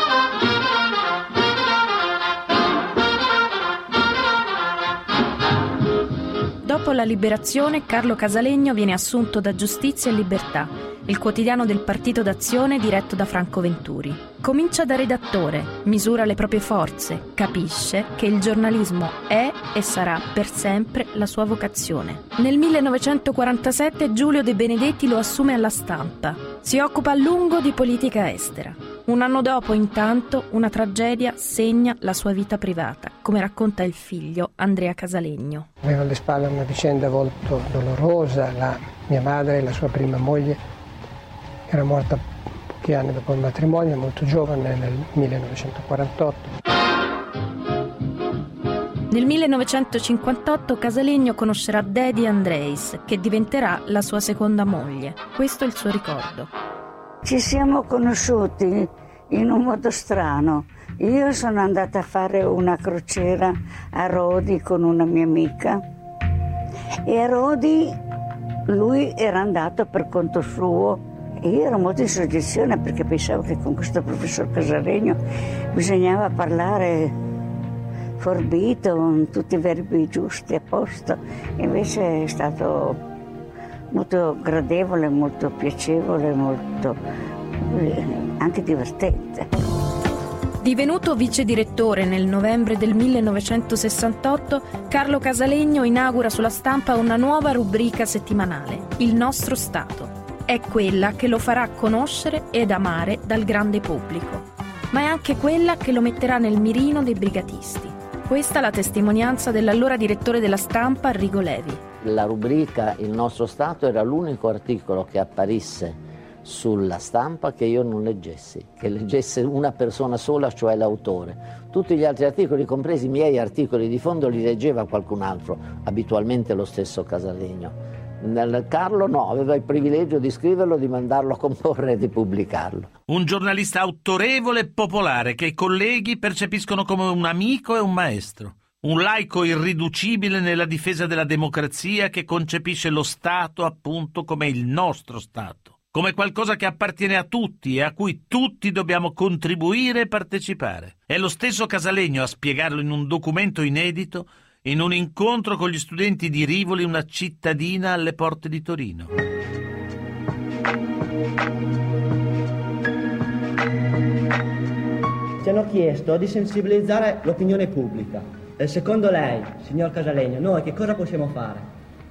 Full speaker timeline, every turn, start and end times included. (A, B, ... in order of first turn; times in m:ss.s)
0:06.6-0:35.7 A
0:35.8-0:40.6 B
0:41.7-0:46.5 B
0:49.1-0:56.5 A
0:57.2-1:05.8 C
1:07.1-1:08.0 C
1:08.7-1:15.2 C
1:15.7-1:17.1 C
1:18.2-1:23.0 C
1:23.9-1:27.0 C
1:27.7-1:29.5 C
1:30.6-1:51.8 A
1:52.0-2:12.9 D
2:13.1-2:39.1 E
2:45.4-2:51.7 F